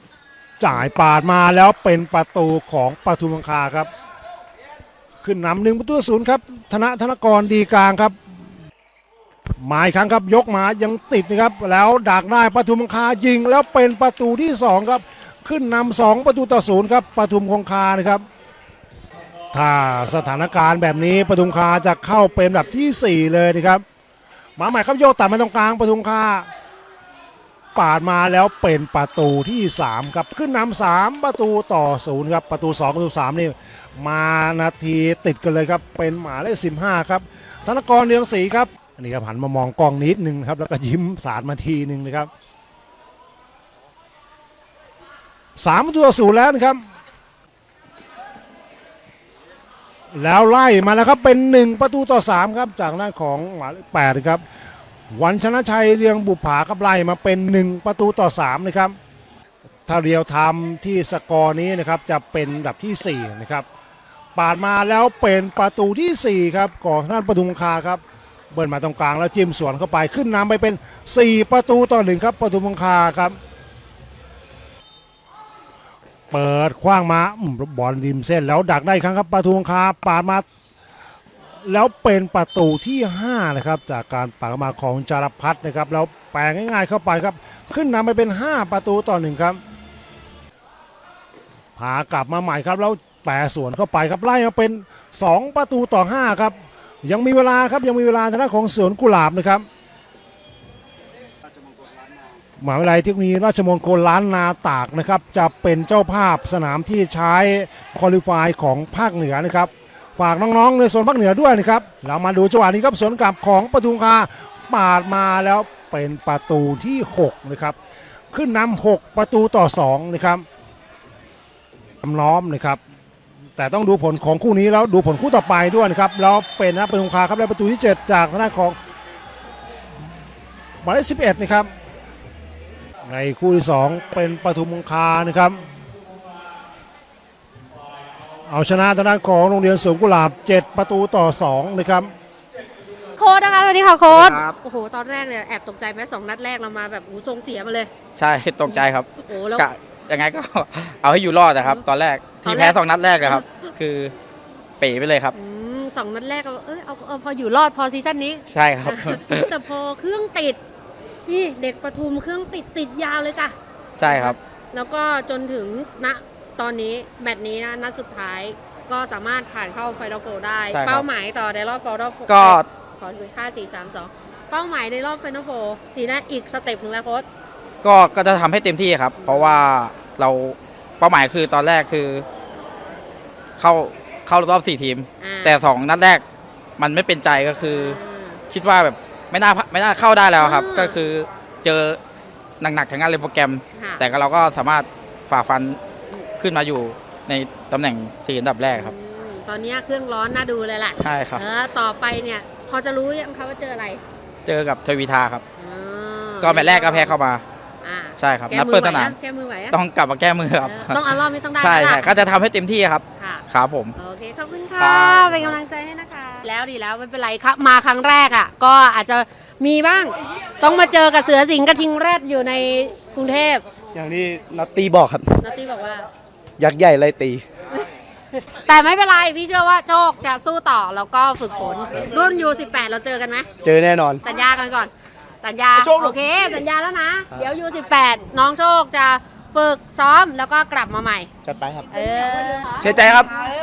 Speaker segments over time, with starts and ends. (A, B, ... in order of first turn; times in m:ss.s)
0:00.6-0:03.9 A
0:05.2-0:08.2 A
0:09.6-0:18.2 A
0:19.5-0:23.8 A
0:24.6-0:26.5 A
0:27.7-0:42.3 A
0:45.6-0:46.8 A
0:50.1-0:54.4 A
0:55.1-0:59.0 A
0:59.9-1:03.6 A
1:04.4-1:13.4 A
1:16.3-1:20.4 A
1:21.6-1:29.6 A
1:31.8-1:39.6 A
1:42.6-1:57.8 A
1:58.3-2:00.4 A
2:02.0-2:02.8 A
2:03.6-2:08.8 A
2:10.8-2:11.7 A
2:13.0-2:15.6 A
2:18.4-2:22.1 A
2:23.2-2:27.9 B
2:24.1-2:24.6 C
2:28.2-2:34.1 C
2:28.7-2:29.7 B
2:32.4-2:33.7 B
2:34.8-2:35.3 C
2:35.3-2:40.6 B
2:38.5-2:39.5 C
2:41.2-2:43.5 B
2:44.0-2:44.4 C
2:44.0-2:57.2 B
2:50.7-2:51.0 C
2:52.3-2:52.6 C
2:57.8-3:02.2 C
2:59.2-2:59.7 B
3:03.6-3:06.2 C
3:05.2-3:05.6 B
3:06.8-3:08.0 C
3:07.7-3:08.4 B
3:08.5-3:12.0 C
3:10.4-3:11.0 B
3:12.6-3:15.8 C
3:13.8-3:14.0 B
3:16.4-3:18.9 C
3:18.7-3:24.0 B
3:21.0-3:21.4 C
3:24.4-3:25.4 C
3:25.6-3:27.1 B
3:26.4-3:27.4 C
3:27.8-3:29.8 B
3:28.2-3:29.2 C
3:29.7-3:33.9 C
3:30.6-3:32.2 B
3:33.2-3:33.4 B
3:34.0-3:43.6 B
3:34.7-3:35.6 C
3:43.9-3:45.4 D
3:45.4-3:46.0 B
3:46.6-3:47.4 D
3:47.7-3:53.5 B
3:53.6-3:54.2 D
3:54.2-3:54.9 B
3:55.4-4:01.3 B
3:55.8-3:56.2 D
4:01.4-4:01.9 D
4:01.9-4:02.8 B
4:02.8-4:03.4 D